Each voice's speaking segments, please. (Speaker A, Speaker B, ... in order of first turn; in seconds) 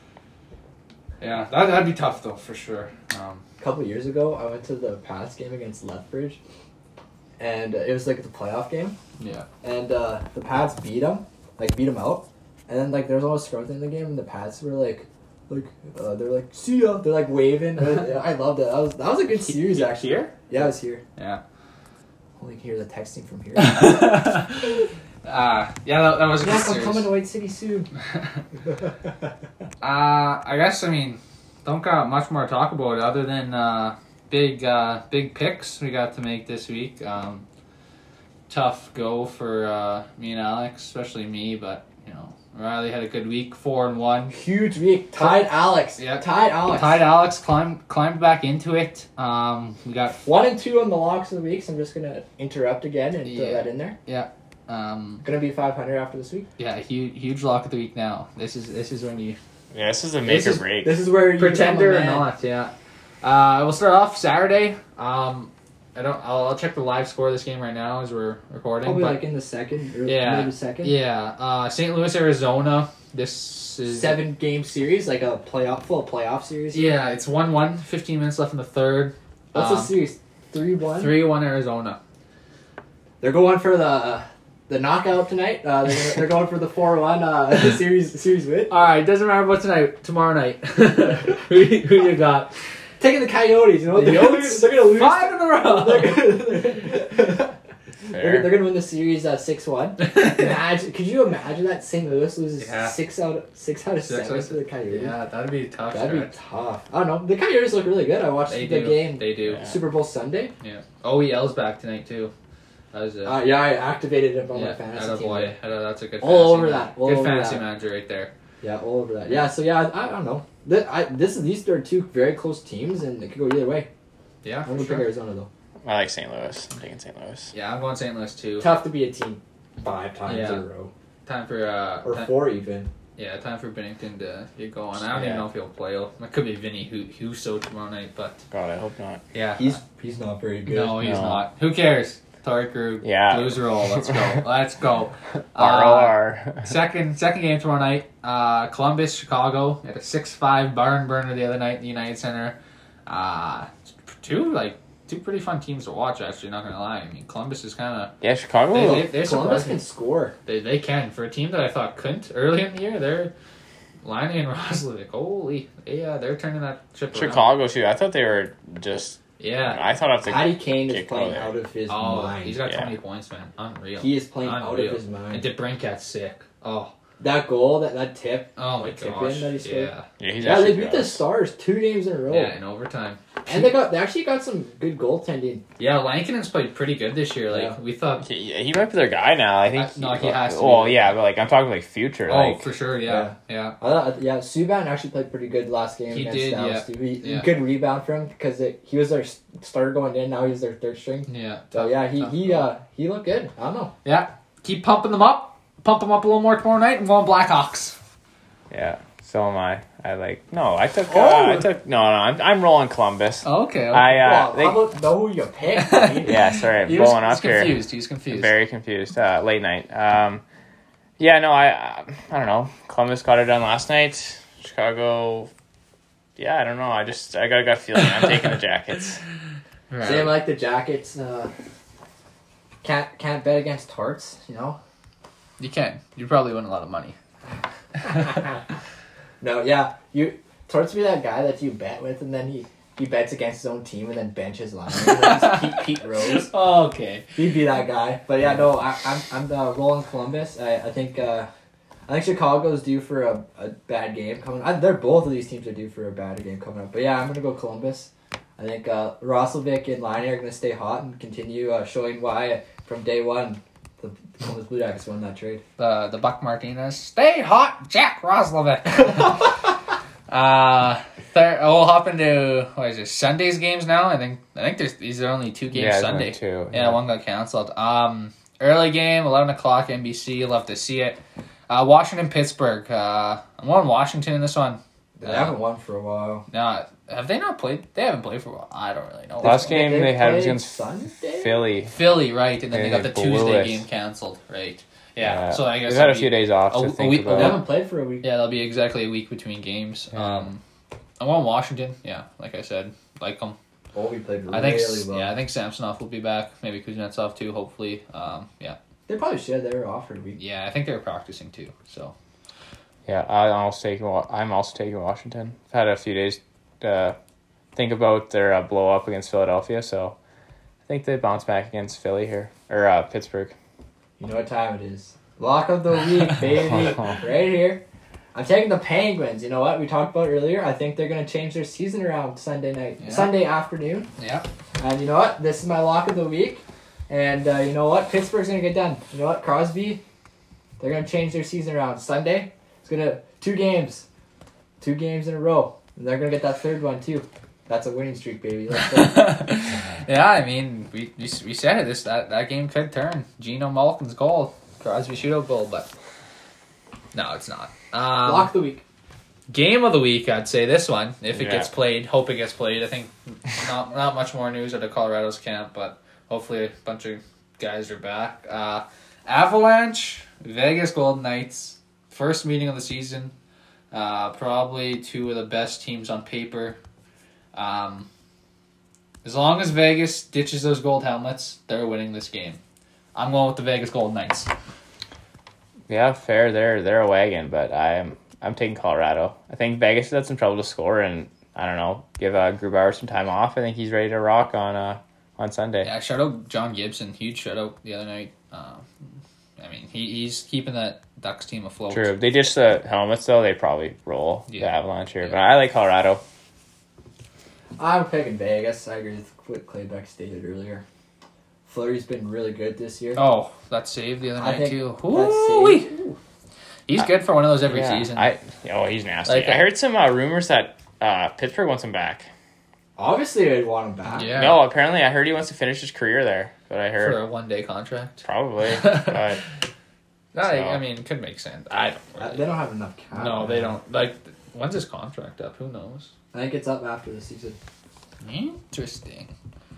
Speaker A: 1.2-3.4, 9.2-9.5, 19.3-20.5, 21.2-21.4, 23.6-27.1, 29.8-37.5, 38.5-44.4, 45.1-50.2, 53.2-55.2, 56.6-59.4, 60.3-60.6, 61.3-69.2, 70.1-74.2, 76.7-80.0, 81.0-82.0, 88.7-92.5, 93.9-96.7, 102.6-103.0, 104.0-106.3, 108.5-109.7, 110.6-112.3, 112.9-113.5, 114.5-118.3, 124.4-125.1, 127.5-128.7, 130.3-130.7, 131.3-132.4, 133.2-138.4, 139.3-139.8, 140.7-158.1, 158.7-159.8, 160.5-163.3, 164.0-167.5, 169.4-169.8, 171.9-176.9, 178.6-180.1, 182.3-183.8, 185.8-188.3, 189.7-191.2, 192.3-193.8, 196.1-197.5, 201.3-202.7, 204.1-208.0, 213.4-214.3, 215.7-218.6, 229.9-230.4, 235.6-237.2, 245.0-247.3, 265.8-269.7, 270.3-285.6, 286.5-289.6, 291.9-297.7, 298.2-300.6, 301.2-303.6, 304.5-308.8, 310.4-312.1, 333.0-333.4, 334.2-334.5, 348.7-355.9, 357.1-358.5, 359.5-373.3, 373.9-376.8, 377.5-378.1, 379.2-382.6, 383.1-384.5, 395.8-398.9, 399.6-402.2, 404.5-405.4, 413.2-416.2, 416.9-418.3, 419.3-419.6, 424.1-424.7, 427.0-429.3, 430.3-432.5, 433.1-436.1, 438.2-439.3
Speaker B: 3.6-6.4, 7.4-9.0, 9.6-21.0, 22.4-24.4, 26.4-27.9, 44.3-47.1, 50.2-54.0, 55.2-56.5, 60.8-62.3, 68.8-71.0, 73.9-76.9, 79.5-81.3, 83.2-88.7, 93.0-97.5, 98.1-105.2, 105.9-110.5, 113.2-115.5, 116.2-117.7, 118.6-123.9, 124.7-125.5, 128.6-130.9, 132.0-132.9, 139.6-141.2, 158.7-160.3, 170.2-172.6, 174.0-175.5, 177.2-182.6, 183.5-185.6, 187.5-187.8, 193.1-203.9, 211.1-211.7, 214.1-216.4, 230.0-231.5, 232.8-234.8, 238.0-238.4, 239.4-246.5, 247.3-251.5, 252.1-265.6, 285.2-286.5, 289.4-291.7, 297.3-298.3, 303.9-305.4, 309.1-310.4, 324.2-327.8, 328.3-334.1, 334.8-340.0, 340.8-344.1, 344.8-349.4, 358.2-358.8, 407.8-410.8, 411.7-413.2, 414.4-416.1, 423.0-424.4, 432.2-433.8, 436.3-437.6
Speaker C: 59.7-61.0, 98.1-98.5, 125.8-127.5, 135.1-135.4, 138.5-139.2, 141.0-141.4, 143.0-144.4, 145.6-146.7, 158.2-159.1, 167.1-171.5, 180.2-181.2, 188.2-192.7, 208.7-214.8, 216.2-220.4, 221.2-225.5, 226.4-229.2, 275.7-277.0, 289.4-292.0, 292.7-293.8, 295.2-297.6, 300.1-300.5, 313.1-317.2, 317.8-320.2, 320.9-323.5, 361.3-361.7, 385.9-395.9, 401.9-406.2, 417.6-422.3, 424.3-427.2, 428.2-429.4, 430.4-430.8